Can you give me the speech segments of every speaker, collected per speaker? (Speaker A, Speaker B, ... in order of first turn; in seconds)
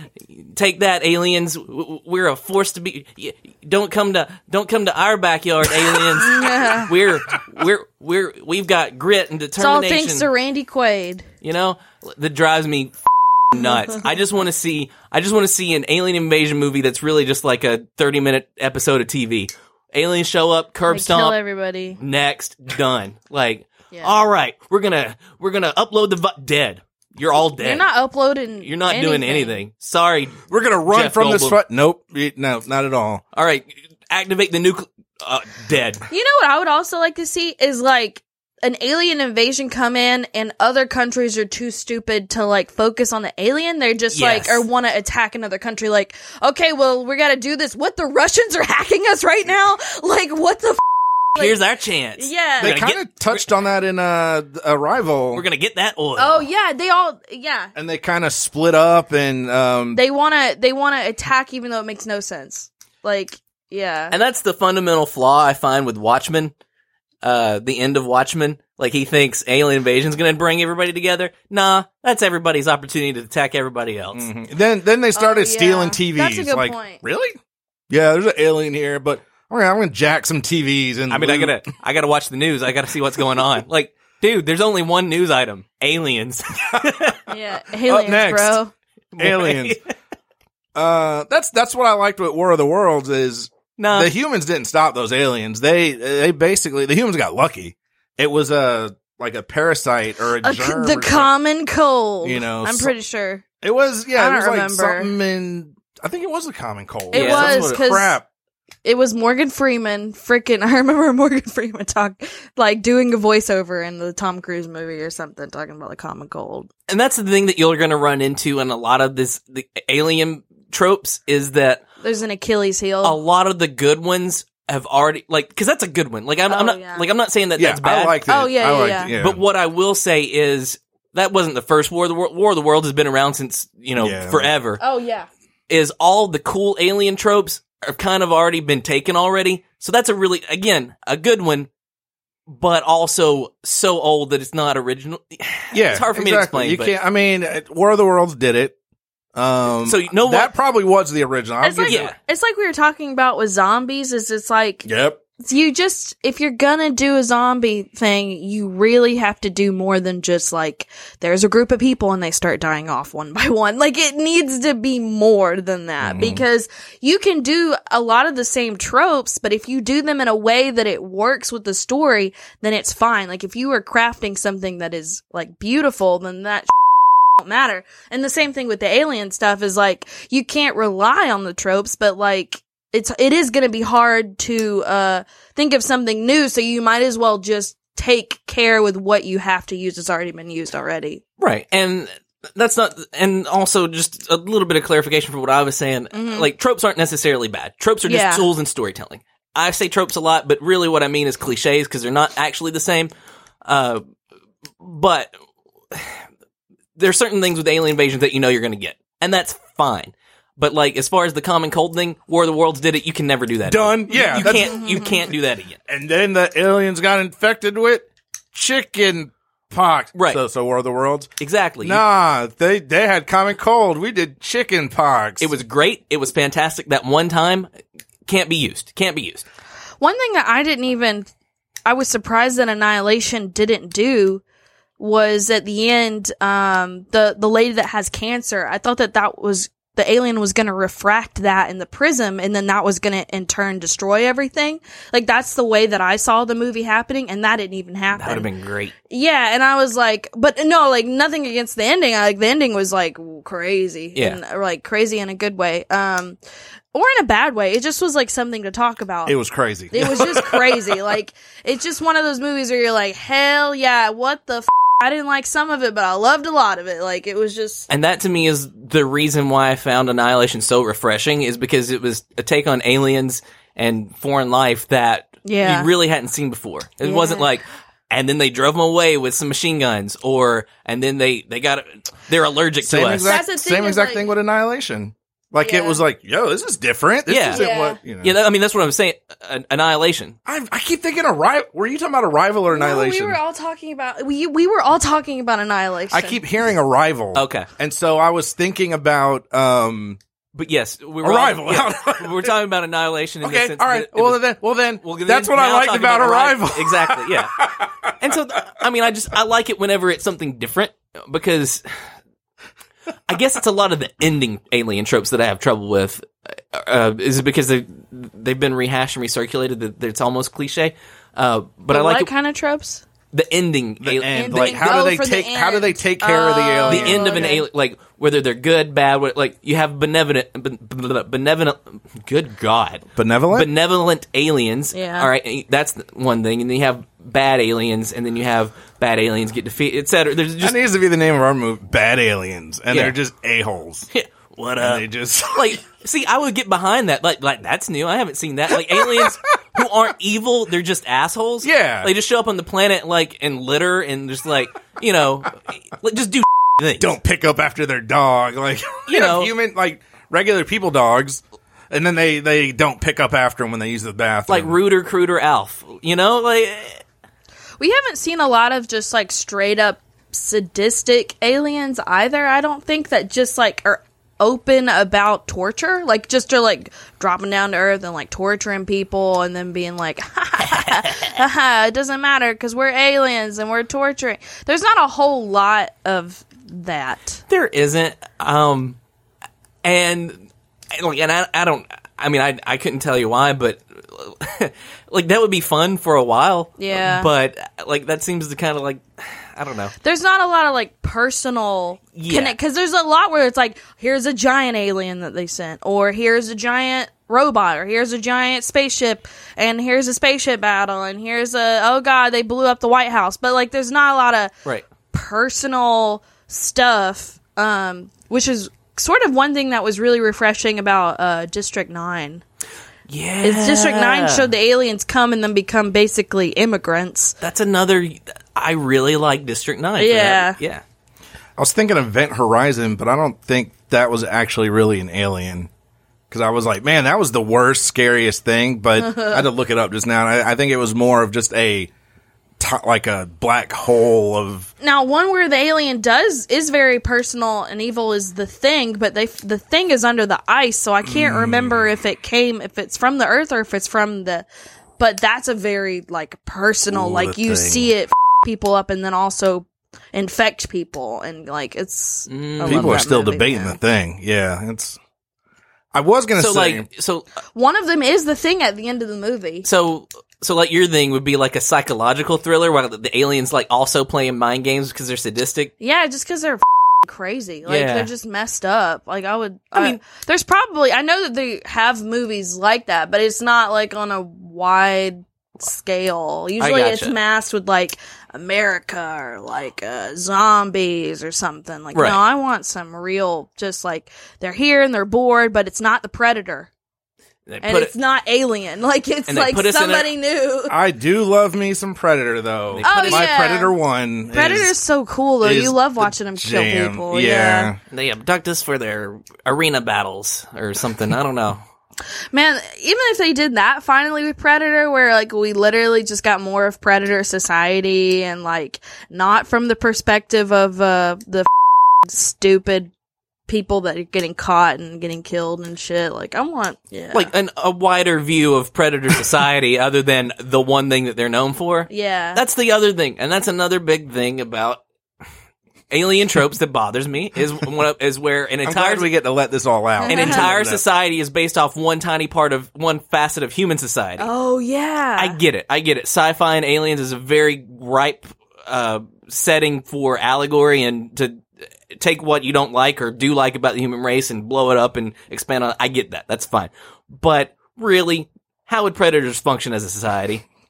Speaker A: 0.2-10.3, 11.4-12.9, 13.5-21.4, 21.9-27.9, 28.6-31.6, 33.3-36.0, 44.1-44.6, 51.4-53.4, 55.3-56.5, 64.1-66.5, 67.2-74.3, 81.1-87.2, 89.1-89.8, 93.8-94.1, 107.1-107.8, 116.9-121.8, 123.0-128.2, 129.1-134.8, 135.7-141.7, 142.5-146.9, 149.8-150.5, 151.9-152.1, 191.4-203.1, 203.6-204.0, 204.8-205.3, 205.9-206.2, 206.9-215.8, 220.1-220.4, 221.4-222.0, 225.4-227.7, 228.2-229.4, 248.1-248.9, 267.9-283.4, 287.3-287.6, 288.2-290.4, 297.3-297.7, 300.5-304.4, 305.0-307.5, 308.2-311.9, 313.3-322.3, 323.3-324.9, 326.9-340.8, 342.9-343.1, 344.1-357.1, 359.1-359.5, 364.5-367.0, 380.6-381.4, 387.5-389.0, 389.8-399.9, 402.1-402.6, 423.1-424.5, 427.4-430.8, 462.3-463.0, 466.4-467.3, 469.6-475.7, 477.6-478.1, 486.6-487.1, 491.9-492.2, 497.5-497.9, 499.3-500.1, 502.7-503.3, 507.9-511.6, 527.1-534.8, 535.9-539.1, 540.1-544.3, 545.2-560.4
Speaker B: 6.1-6.9, 9.6-11.3, 20.9-22.0, 27.6-29.6, 36.1-51.6, 52.2-52.8, 56.2-57.7, 59.9-64.2, 75.1-77.0, 87.3-88.7, 100.4-103.4, 104.2-105.1, 107.1-108.2, 108.8-116.7, 122.0-123.2, 126.5-127.1, 128.3-129.1, 134.8-135.3, 151.6-154.9, 155.4-176.7, 177.4-191.2, 196.1-196.5, 198.1-198.5, 214.3-215.2, 230.0-231.3, 231.8-234.4, 235.0-248.5, 249.1-256.4, 256.9-259.4, 259.9-267.9, 275.4-275.9, 277.0-277.5, 283.2-284.3, 285.6-286.0, 287.5-288.0, 292.7-296.4, 321.9-323.0, 324.3-327.6, 334.9-335.3, 367.8-387.4, 396.8-397.3, 400.0-414.5, 415.1-422.4, 423.4-427.3, 430.0-430.6, 439.0-439.4, 444.8-454.4, 455.0-463.8, 467.5-469.6, 475.8-496.7, 497.6-500.7, 502.8-503.8, 504.3-507.7, 512.3-521.5, 522.0-522.9, 523.5-527.3, 531.9-532.4, 540.0-540.5, 544.2-545.4
Speaker C: 30.5-33.2, 52.6-55.4, 57.7-60.0, 74.1-77.4, 77.9-81.7, 87.8-88.6, 89.2-89.8, 90.7-101.3, 102.2-102.9, 103.6-108.2, 127.6-129.4, 134.0-134.5, 145.7-148.8, 149.3-152.1, 154.8-155.2, 166.0-166.4, 213.7-215.2, 215.9-221.3, 221.8-225.5, 259.2-260.9, 282.8-288.4, 290.4-293.4, 296.1-300.2, 301.2-302.5, 303.4-308.1, 324.0-327.5, 333.1-333.7, 340.6-344.1, 344.8-345.8, 348.9-349.3, 351.6-352.1, 357.0-364.8, 431.6-435.7, 436.3-441.9, 442.6-444.7, 451.0-451.9, 456.9-457.9, 462.6-465.0, 465.9-466.9, 500.7-504.7, 505.4-507.8, 538.6-540.8